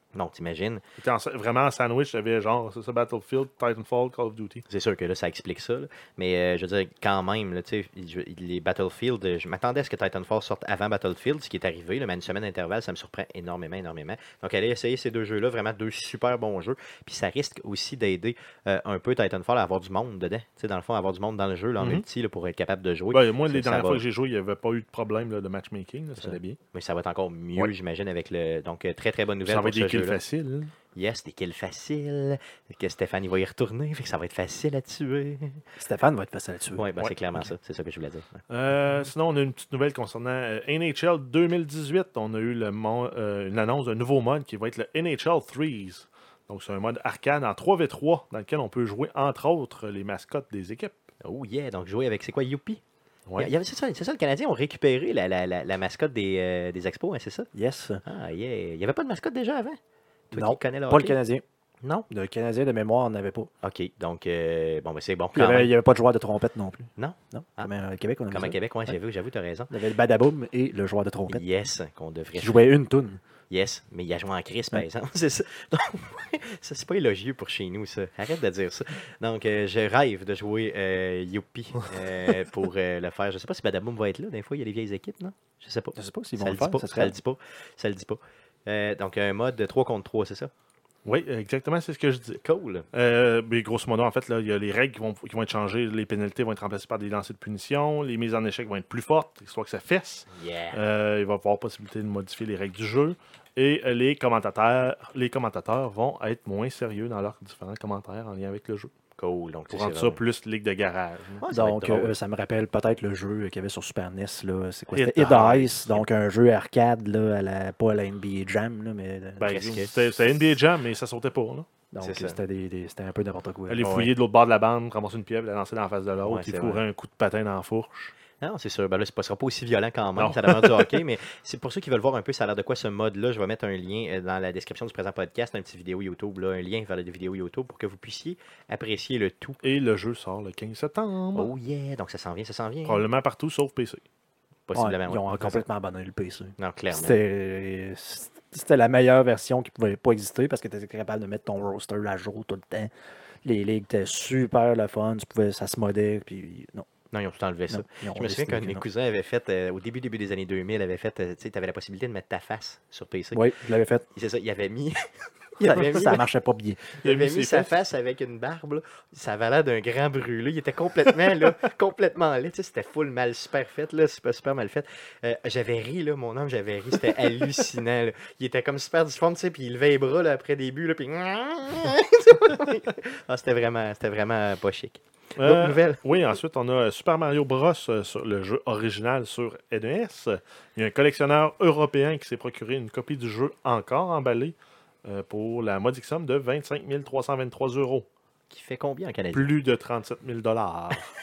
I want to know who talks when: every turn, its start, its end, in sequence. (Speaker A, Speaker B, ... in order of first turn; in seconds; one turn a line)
Speaker A: 0.1-0.8
Speaker B: 1.0-4.6
Speaker A: 4.7-24.0
Speaker B: 21.8-22.1
Speaker B: 23.1-26.6
Speaker A: 26.2-30.2
Speaker B: 29.5-30.7
Speaker A: 30.9-35.6
Speaker C: 35.8-36.9
Speaker A: 36.8-38.4
Speaker B: 38.5-51.0
Speaker A: 51.2-52.8
Speaker A: 53.4-57.5
Speaker C: 57.5-58.0
Speaker A: 58.0-59.8
Speaker A: 60.3-61.2
Speaker C: 60.3-61.4
Speaker A: 61.8-62.1
Speaker C: 62.1-63.5
Speaker A: 63.6-65.7
Speaker C: 65.3-68.6
Speaker A: 67.0-67.7
Speaker A: 68.3-69.7
Speaker C: 69.7-71.4
Speaker A: 71.3-72.6
Speaker C: 72.3-73.2
Speaker A: 73.5-90.5
Speaker C: 86.0-87.2
Speaker B: 91.0-92.4
Speaker A: 92.4-92.9
Speaker B: 92.9-108.9
Speaker A: 100.3-100.8
Speaker A: 109.2-110.2
Speaker B: 109.7-111.4
Speaker A: 111.4-112.2
Speaker C: 111.5-119.6
Speaker B: 114.9-116.0
Speaker B: 119.4-121.7
Speaker A: 119.5-120.0
Speaker C: 121.9-123.9
Speaker A: 122.0-122.4
Speaker B: 123.7-128.1
Speaker A: 123.8-124.1
Speaker A: 126.2-126.8
Speaker A: 128.4-139.6
Speaker B: 130.2-131.0
Speaker B: 139.6-141.5
Speaker A: 141.3-143.1
Speaker B: 142.8-144.0
Speaker A: 144.7-145.6
Speaker C: 144.8-152.9
Speaker A: 146.6-147.2
Speaker C: 153.4-156.9
Speaker A: 157.1-163.4
Speaker C: 157.7-158.8
Speaker C: 163.3-164.1
Speaker A: 164.1-166.2
Speaker C: 165.6-166.8
Speaker A: 167.0-186.0
Speaker B: 167.0-167.7
Speaker B: 185.4-198.1
Speaker A: 198.5-199.5
Speaker B: 199.3-201.1